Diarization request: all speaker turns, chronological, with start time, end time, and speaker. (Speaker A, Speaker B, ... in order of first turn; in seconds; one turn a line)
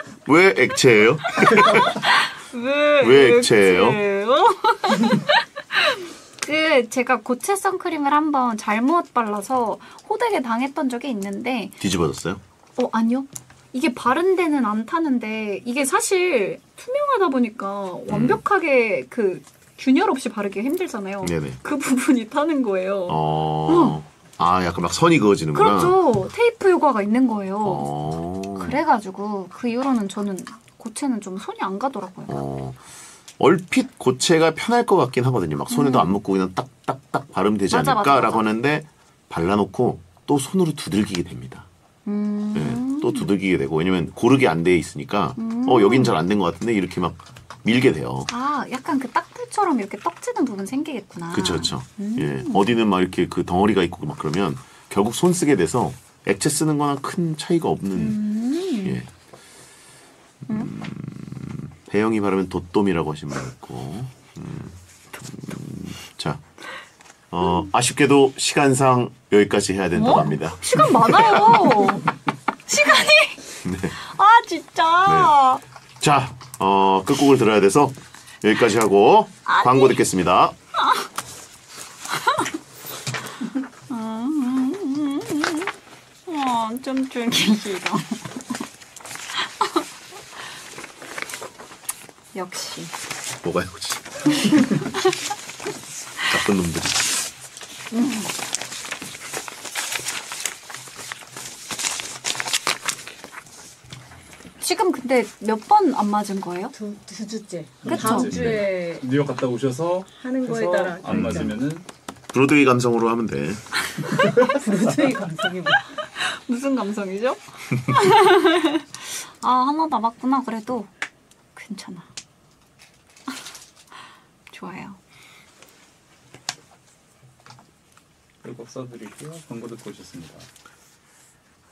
Speaker A: 0.2-2.0
Speaker B: 1.5-11.8
Speaker A: 3.0-4.0
Speaker A: 11.8-12.4
Speaker B: 12.8-24.0
Speaker A: 18.1-18.4
Speaker A: 21.2-21.6
Speaker A: 23.1-26.0
Speaker B: 25.6-27.9
Speaker A: 27.6-28.8
Speaker B: 28.5-32.4
Speaker A: 32.3-32.8
Speaker A: 33.4-41.7
Speaker B: 35.7-36.2
Speaker B: 37.7-38.5
Speaker B: 42.1-43.3
Speaker A: 42.5-48.3
Speaker B: 45.4-46.1
Speaker B: 48.3-52.8
Speaker A: 51.3-58.2
Speaker B: 57.9-59.0
Speaker A: 58.8-59.1
Speaker A: 60.5-66.4
Speaker A: 67.3-71.8
Speaker B: 67.4-67.7
Speaker B: 69.9-72.1
Speaker B: 72.7-73.4
Speaker A: 73.6-74.0
Speaker B: 74.0-75.6
Speaker A: 75.0-75.3
Speaker A: 76.0-80.5
Speaker B: 79.5-80.0
Speaker B: 80.8-81.1
Speaker B: 82.1-82.5
Speaker B: 83.9-85.7
Speaker B: 86.3-88.4
Speaker B: 89.5-89.8
Speaker B: 92.3-92.9
Speaker A: 93.4-94.5
Speaker A: 96.3-97.2
Speaker B: 97.9-98.3
Speaker B: 104.6-106.7
Speaker C: 106.7-109.1
Speaker D: 107.8-111.9
Speaker A: 107.9-108.7
Speaker B: 107.9-108.3
Speaker C: 110.1-111.6
Speaker A: 111.1-111.6
Speaker A: 112.3-113.6
Speaker C: 114.4-115.8
Speaker B: 116.2-120.9
Speaker B: 121.5-122.1
Speaker B: 124.5-125.0
Speaker D: 128.4-130.5